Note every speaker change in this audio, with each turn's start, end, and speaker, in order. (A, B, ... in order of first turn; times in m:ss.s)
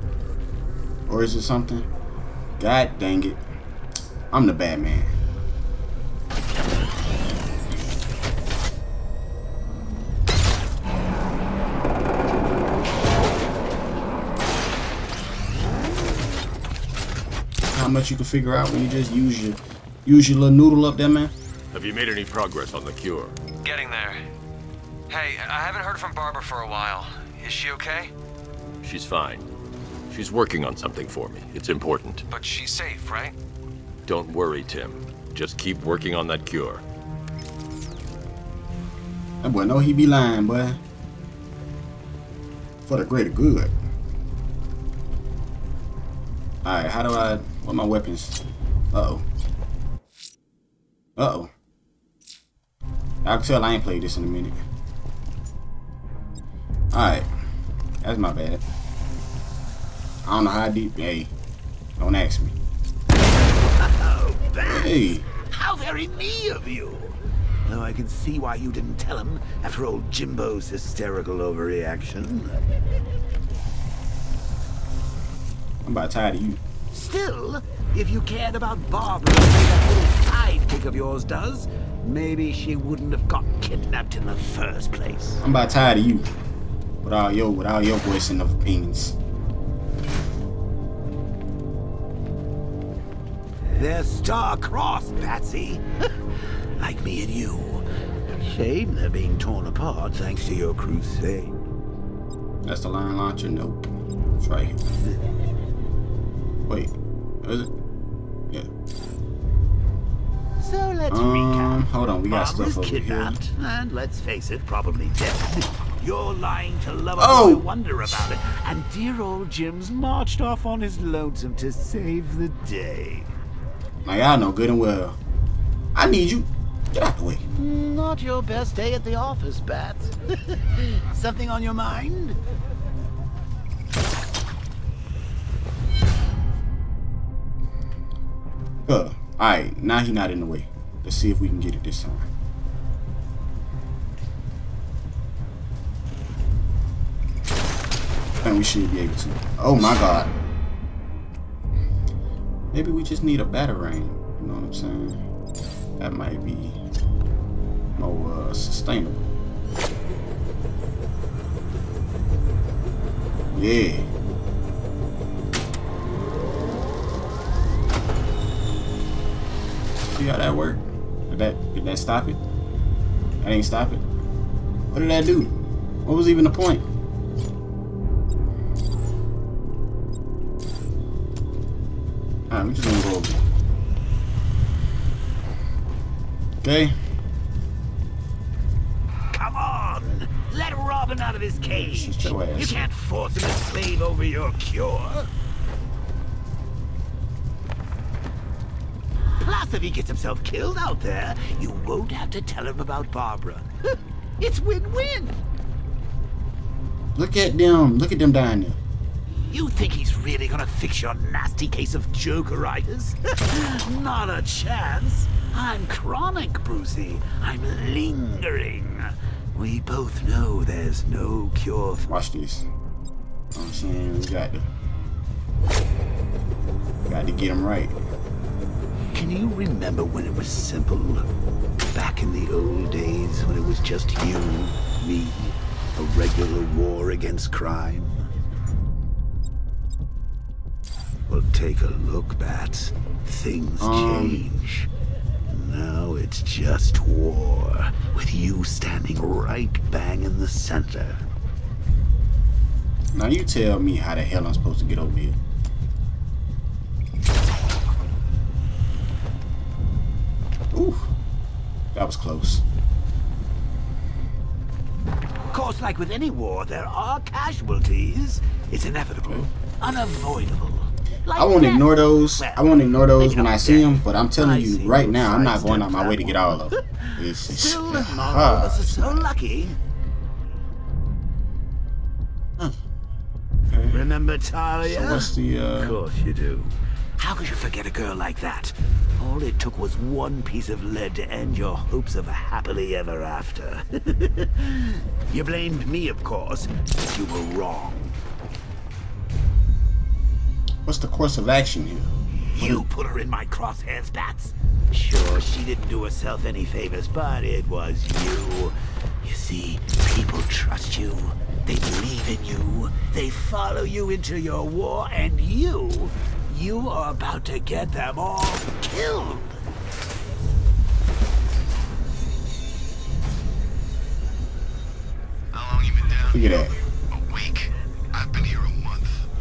0:01.1-0:01.9 A
0:02.6-0:03.4 A
0:04.3-0:05.1 A
0:17.7-0:21.3 A
0:21.7-0:23.4 B
0:23.6-0:24.2 C
0:25.1-0:28.1 C
0:28.8-0:29.5 B
0:30.1-0:32.2 B
0:32.3-0:33.3 C
0:34.0-0:36.8 B
0:39.4-0:40.8 A
0:42.8-0:43.7 A
0:46.6-0:48.4 A
0:48.9-0:49.2 A
0:51.2-0:51.5 A
0:53.2-0:54.6 A
0:56.9-0:57.3 A
0:58.0-0:58.6 A
1:00.2-1:01.3 A
1:02.0-1:02.6 A
1:03.8-1:12.6 D
1:04.6-1:05.2 A
1:15.8-1:16.6 A
1:16.9-1:25.4 D
1:25.4-1:26.3 A
1:27.0-1:29.2 A
1:33.7-1:35.8 D
1:36.8-1:41.5 D
1:42.6-1:44.8 A
1:46.7-1:47.7 A
1:50.6-2:03.3 D
1:51.1-1:53.4 A
1:57.2-1:57.6 A
2:04.0-2:05.2 A
2:05.9-2:07.4 A
2:07.5-2:12.4 D
2:18.8-2:22.3 A
2:28.4-2:30.3 A
2:32.7-2:35.2 A
2:36.0-2:36.8 A
2:37.9-2:39.3 A
2:43.5-2:44.1 A
2:50.1-2:52.4 A
2:53.4-2:54.0 A
2:54.9-2:55.5 A
2:56.0-2:56.8 A
3:02.5-3:03.4 A
3:06.6-3:07.0 A
3:09.3-3:15.3 D
3:11.7-3:12.8 A
3:19.4-3:23.7 D
3:24.4-3:25.4 D
3:27.1-3:28.8 A
3:29.4-3:42.1 D
3:42.1-3:42.7 A
3:43.5-3:44.6 A
3:47.0-3:48.0 A
3:49.1-3:51.3 D
3:51.9-3:58.2 D
4:01.3-4:04.9 D
4:03.8-4:04.4 A
4:05.5-4:11.2 D
4:13.1-4:15.4 A
4:20.7-4:21.1 A
4:21.9-4:22.6 A
4:25.5-4:39.8 D
4:31.4-4:39.3 A
4:43.7-4:44.0 A
4:43.9-4:58.2 D
4:44.8-4:46.0 A
5:00.8-5:02.8 A
5:02.5-5:19.6 D
5:25.5-5:26.4 E
5:26.3-5:26.7 A
5:27.3-5:29.2 E